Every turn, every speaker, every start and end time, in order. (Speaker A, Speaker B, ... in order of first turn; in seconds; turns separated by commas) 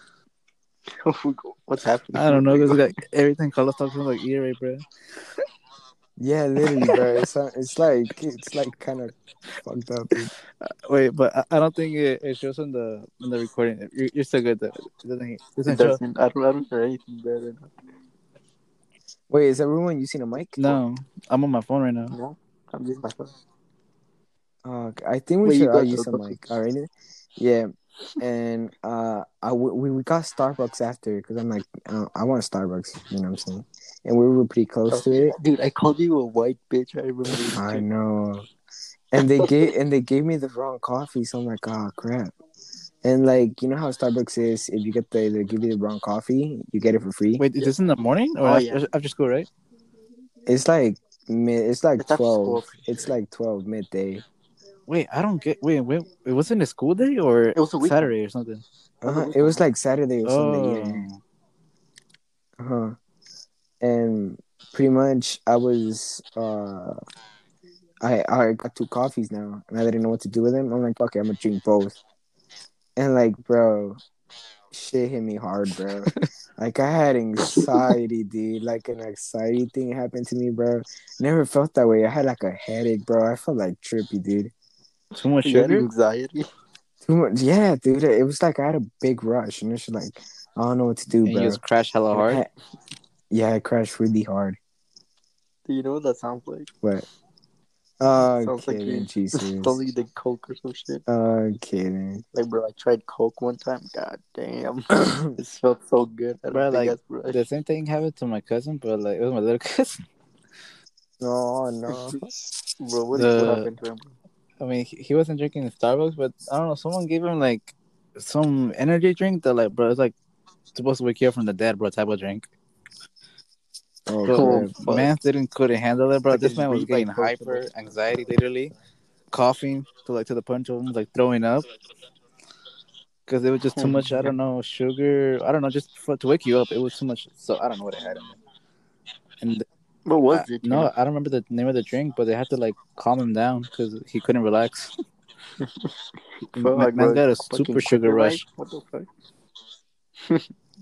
Speaker A: 0.9-3.0, Speaker B: 2.1-4.8, Speaker C: 6.2-10.3, Speaker B: 10.6-16.0, Speaker A: 15.7-17.7, Speaker C: 19.3-20.8, Speaker B: 20.6-22.2, Speaker A: 22.1-23.3, Speaker C: 24.6-35.4, Speaker A: 25.4-26.3, Speaker A: 34.9-37.9, Speaker C: 37.5-38.5, Speaker C: 39.1-42.4, Speaker C: 43.0-47.5, Speaker B: 47.4-49.5, Speaker A: 48.4-48.9, Speaker C: 50.5-54.2, Speaker A: 52.0-53.0, Speaker B: 54.9-58.6, Speaker A: 57.5-58.1, Speaker C: 59.0-61.1, Speaker A: 59.0-59.6, Speaker B: 60.2-61.2, Speaker C: 62.6-63.0, Speaker C: 63.8-67.0, Speaker C: 68.0-72.0, Speaker C: 73.0-74.0, Speaker C: 74.7-84.5, Speaker B: 85.2-85.9, Speaker A: 85.4-86.4, Speaker C: 87.0-91.6, Speaker B: 91.3-92.4, Speaker C: 92.1-92.5, Speaker C: 93.3-94.6, Speaker A: 95.7-96.7, Speaker C: 98.0-99.8, Speaker A: 98.2-101.0, Speaker C: 101.1-102.2, Speaker A: 102.3-107.4, Speaker C: 105.0-105.2, Speaker B: 106.5-110.0, Speaker C: 111.2-112.2, Speaker A: 111.9-112.2, Speaker A: 112.8-114.2, Speaker B: 113.1-113.7, Speaker B: 114.6-120.2, Speaker B: 120.7-122.5, Speaker C: 124.1-124.9, Speaker B: 124.3-128.7, Speaker A: 124.3-125.1, Speaker A: 126.3-127.7, Speaker B: 129.3-131.7, Speaker B: 133.3-138.4, Speaker A: 133.8-134.3, Speaker A: 140.1-140.9, Speaker B: 140.3-144.9, Speaker A: 145.6-149.1, Speaker B: 146.5-148.4, Speaker A: 150.2-150.5